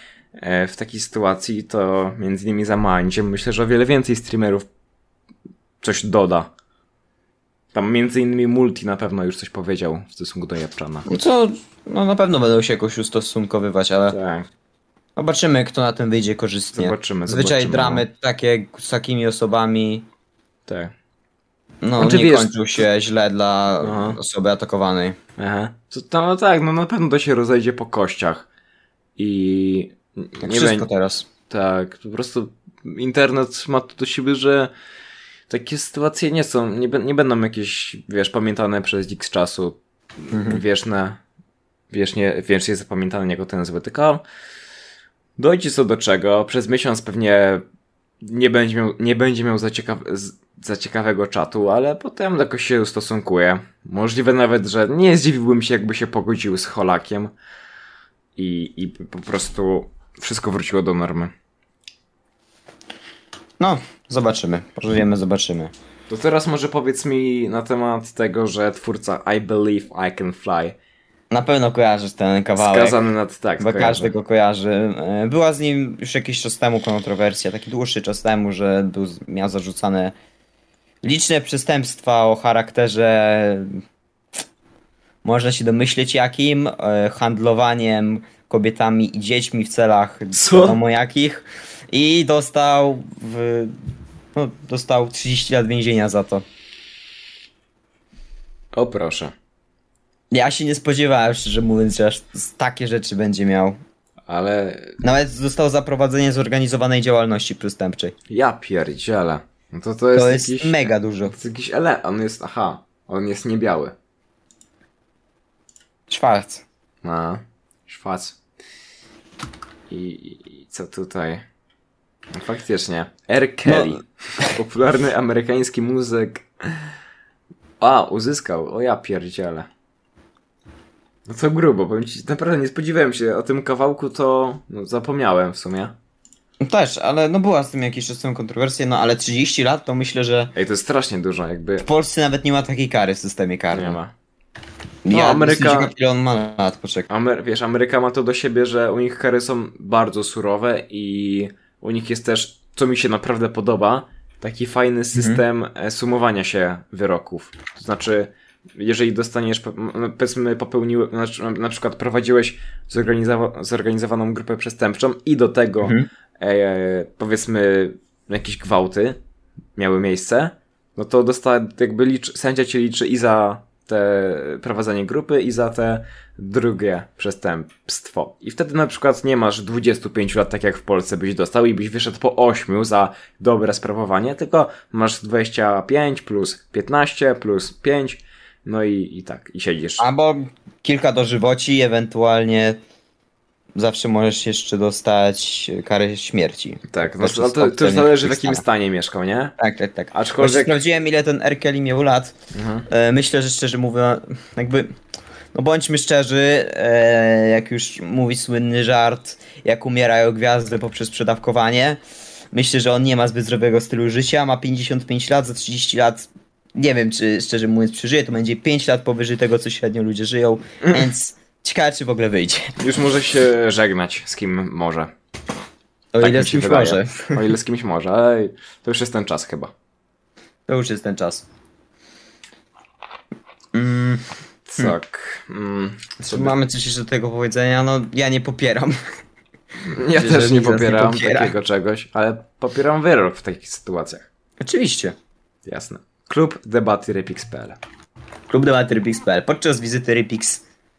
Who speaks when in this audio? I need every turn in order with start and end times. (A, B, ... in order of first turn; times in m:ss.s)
0:00.4-0:04.6 A
0:05.8-0:06.5 A
0:07.7-0:11.0 A
0:11.0-0:14.2 B
0:14.1-0:14.5 A
0:15.2-0:20.0 B
0:16.7-0:18.0 A
0:20.7-0:20.9 A
0:21.8-0:25.2 B
0:22.0-0:22.6 A
0:23.8-0:24.2 A
0:25.4-0:28.5 A
0:29.2-0:30.9 A
0:30.4-0:31.3 B
0:31.5-0:34.7 A
0:35.5-0:41.2 A
0:40.3-0:40.6 B
0:41.9-0:44.2 A
0:45.4-0:47.6 A
0:48.2-0:57.3 A
0:58.4-1:01.3 A
1:03.6-1:05.7 B
1:06.1-1:10.7 A
1:11.3-1:13.0 B
1:12.5-1:14.1 A
1:13.6-1:20.1 B
1:21.0-1:23.8 B
1:25.2-1:33.8 B
1:30.3-1:30.8 A
1:34.3-1:36.4 B
1:38.7-1:39.3 A
1:40.3-1:43.8 B
1:44.3-1:45.0 A
1:45.0-1:48.1 B
1:48.3-1:53.9 A
1:50.1-1:51.4 B
1:56.1-1:56.6 B
1:57.0-1:58.4 A
1:59.9-2:01.4 A
2:02.3-2:06.9 A
2:03.6-2:04.6 B
2:07.8-2:09.7 A
2:11.3-2:15.9 A
2:16.6-2:20.5 B
2:20.5-2:21.9 A
2:21.8-2:24.0 B
2:23.7-2:24.1 A
2:25.0-2:27.1 B
2:25.1-2:25.9 A
2:27.1-2:49.2 A
2:35.1-2:35.4 B
2:45.8-2:46.1 B
2:49.8-3:10.0 A
3:10.0-3:12.8 B
3:13.7-3:18.6 B
3:16.9-3:19.5 A
3:19.6-3:22.3 B
3:20.1-3:20.8 A
3:22.5-3:22.9 A
3:22.9-3:24.9 B
3:25.5-3:32.0 B
3:32.5-3:42.8 B
3:42.8-3:45.1 A
3:46.1-3:47.4 B
3:46.2-3:49.7 A
3:50.7-3:51.4 B
3:53.7-3:54.2 B
3:54.7-3:56.5 A
3:56.2-3:59.0 B
3:59.8-4:04.3 A
4:00.1-4:01.5 B
4:04.6-4:05.1 B
4:05.6-4:07.8 A
4:08.5-4:10.6 B